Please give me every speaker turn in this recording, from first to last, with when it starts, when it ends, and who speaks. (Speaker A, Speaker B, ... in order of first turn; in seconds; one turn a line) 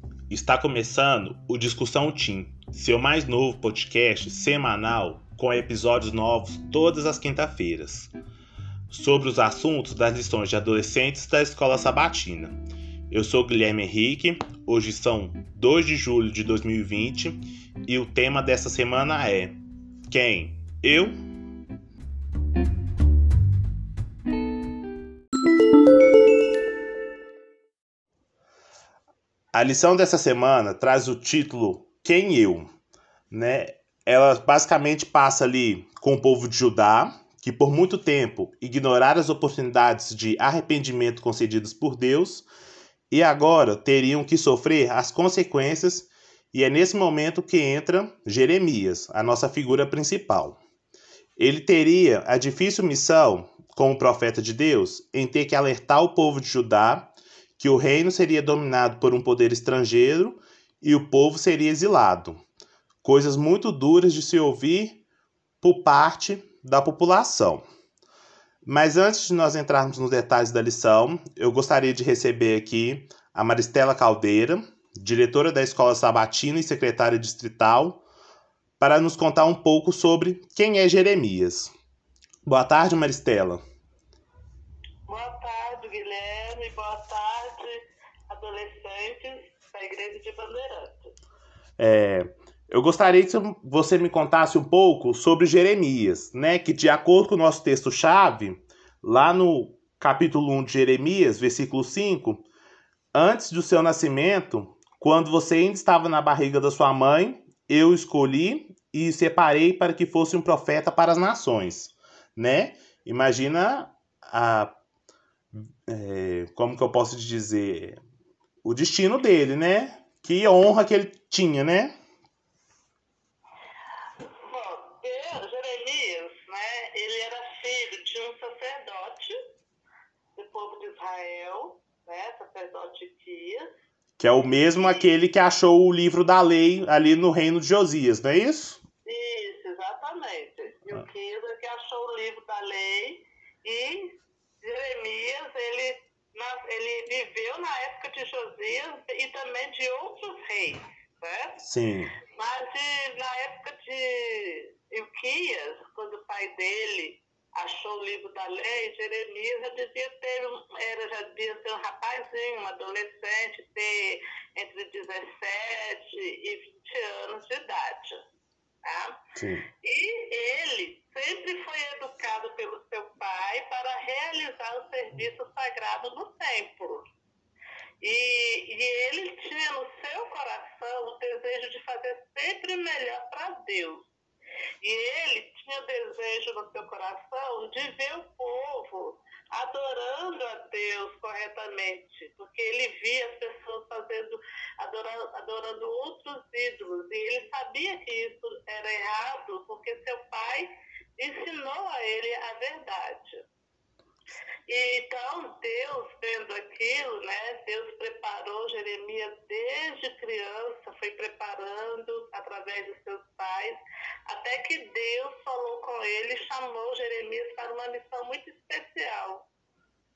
Speaker A: 0.3-8.1
Speaker A: 8.9-19.6
Speaker A: 20.1-21.2
Speaker A: 29.5-32.7
Speaker A: 33.3-42.5
Speaker A: 43.1-50.6
Speaker A: 51.4-62.4
Speaker A: 63.0-65.0
Speaker A: 65.6-67.6
Speaker A: 68.7-78.0
Speaker A: 78.8-81.7
Speaker A: 82.4-83.6
Speaker B: 85.1-91.2
Speaker A: 91.8-102.5
Speaker A: 103.1-114.7
Speaker A: 115.5-118.0
Speaker A: 118.6-121.9
Speaker B: 124.4-129.4
Speaker B: 130.4-133.7
Speaker A: 134.2-138.8
Speaker B: 134.8-135.0
Speaker B: 139.1-151.6
Speaker A: 151.6-152.1
Speaker B: 152.2-168.2
Speaker B: 168.8-169.2
Speaker A: 169.4-169.7
Speaker B: 169.8-177.1
Speaker B: 178.0-184.1
Speaker B: 184.8-203.4
Speaker B: 204.7-219.5